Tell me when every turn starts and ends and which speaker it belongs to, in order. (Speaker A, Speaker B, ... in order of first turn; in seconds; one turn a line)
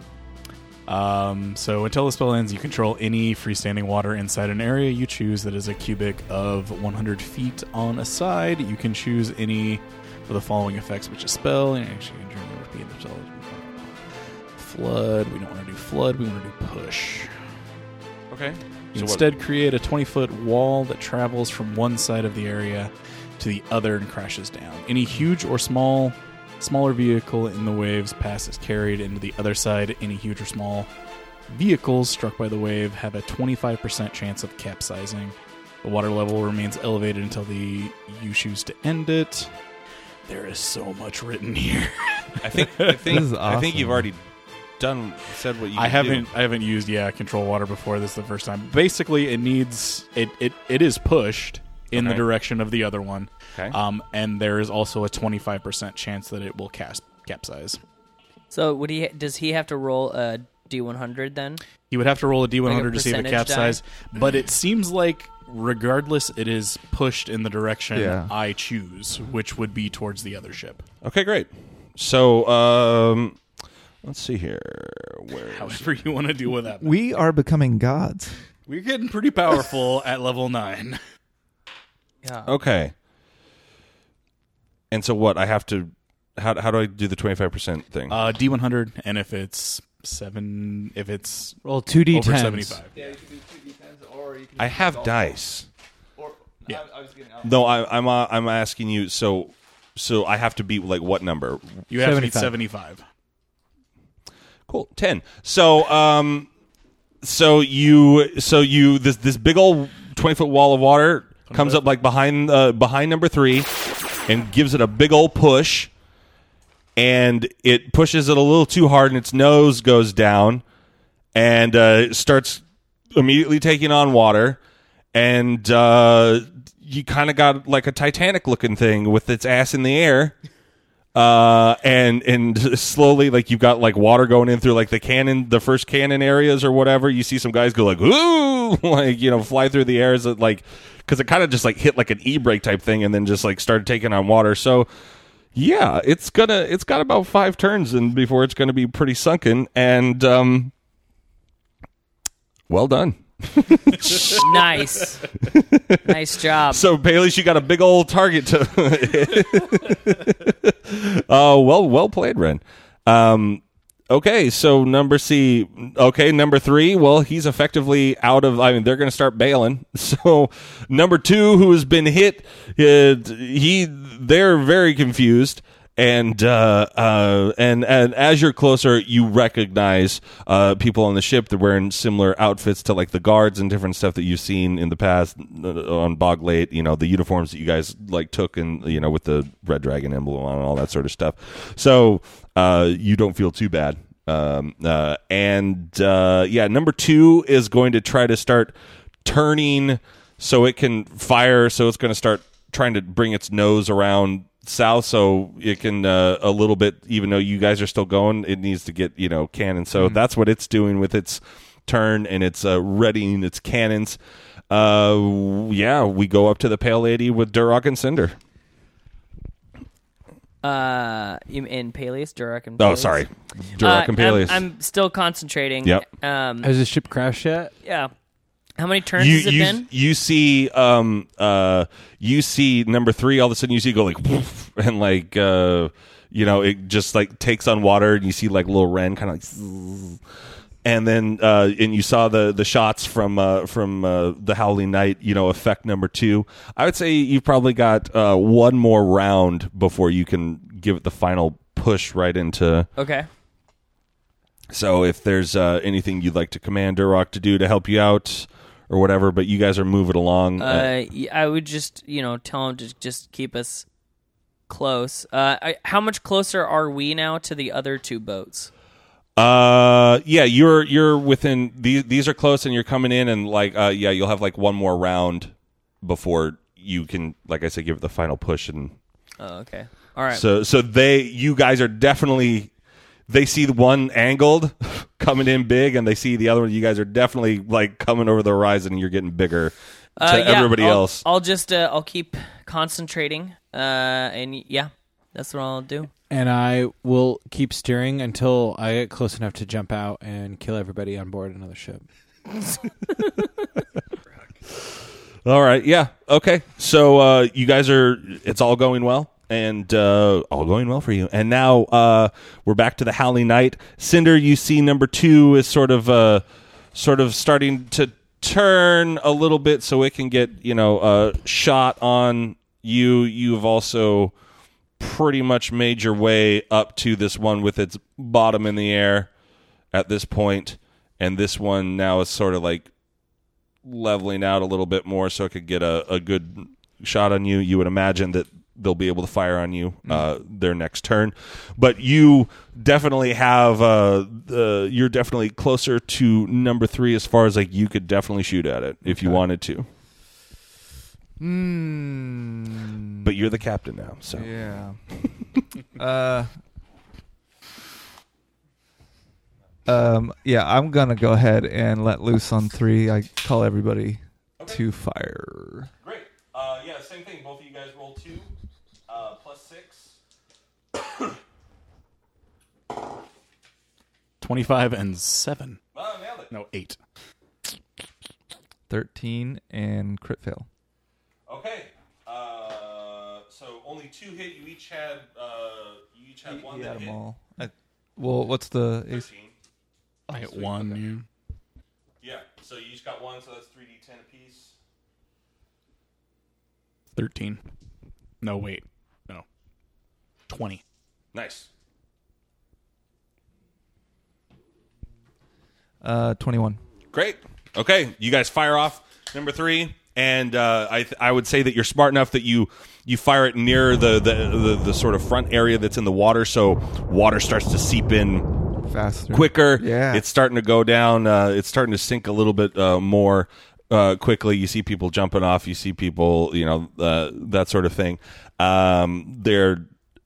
Speaker A: 0.9-13.9
Speaker A: 14.6-17.3
Speaker B: 18.3-19.3
Speaker A: 18.9-30.9
Speaker A: 31.5-39.5
Speaker A: 40.2-43.2
Speaker B: 42.4-44.2
Speaker C: 43.0-44.1
Speaker B: 44.8-46.3
Speaker A: 45.7-57.8
Speaker B: 51.9-52.2
Speaker D: 58.5-61.6
Speaker A: 61.9-70.8
Speaker D: 62.6-63.8
Speaker C: 67.9-68.3
Speaker B: 71.0-73.4
Speaker B: 74.0-76.0
Speaker A: 75.5-76.9
Speaker C: 76.8-78.3
Speaker A: 78.7-81.0
Speaker D: 82.2-82.5
Speaker B: 82.4-82.9
Speaker B: 84.9-88.2
Speaker A: 88.1-92.9
Speaker E: 91.6-92.8
Speaker C: 92.9-95.4
Speaker B: 94.6-95.7
Speaker C: 96.2-97.6
Speaker B: 97.4-101.8
Speaker A: 101.9-103.0
Speaker E: 102.0-102.6
Speaker B: 104.7-106.5
Speaker B: 107.2-113.7
Speaker A: 111.5-111.8
Speaker B: 114.3-115.9
Speaker B: 117.0-120.6
Speaker B: 121.3-122.6
Speaker B: 123.1-124.6
Speaker B: 125.1-130.3
Speaker B: 131.1-144.9
Speaker B: 145.5-150.7
Speaker B: 152.7-154.9
Speaker D: 154.2-155.3
Speaker B: 155.4-156.0
Speaker D: 156.0-156.8
Speaker B: 156.7-214.2
Speaker B: 214.7-218.3
Speaker D: 220.6-223.2
Speaker B: 222.8-224.6
Speaker D: 223.8-226.7
Speaker E: 226.6-227.7
Speaker D: 227.8-228.1
Speaker D: 228.8-229.8
Speaker B: 229.2-240.2
Speaker B: 240.8-252.9
Speaker D: 253.0-253.3
Speaker B: 254.7-260.9
Speaker D: 260.6-263.9
Speaker D: 264.7-268.7
Speaker B: 269.4-278.9
Speaker D: 279.4-280.4
Speaker B: 280.3-282.7
Speaker B: 283.3-291.2
Speaker D: 290.2-296.1
Speaker E: 296.3-302.0
Speaker B: 305.4-324.3
Speaker B: 325.0-329.3
Speaker B: 329.9-332.9
Speaker B: 333.8-349.9
Speaker C: 349.0-349.4
Speaker C: 351.4-353.3
Speaker B: 353.2-354.5
Speaker C: 354.3-355.0
Speaker C: 355.9-356.5
Speaker C: 359.9-365.9
Speaker B: 366.0-368.5
Speaker B: 369.1-370.2
Speaker A: 374.4-375.8
Speaker B: 375.9-376.5
Speaker A: 376.5-377.0
Speaker C: 378.9-380.7
Speaker B: 381.5-387.2
Speaker C: 386.4-389.3
Speaker B: 389.1-389.5
Speaker A: 390.3-391.2
Speaker B: 392.2-394.7
Speaker A: 397.1-397.6
Speaker A: 398.4-399.4
Speaker A: 400.5-400.8
Speaker B: 401.3-401.7
Speaker C: 406.0-406.8
Speaker B: 407.1-418.5
Speaker C: 418.9-420.2
Speaker B: 419.3-429.9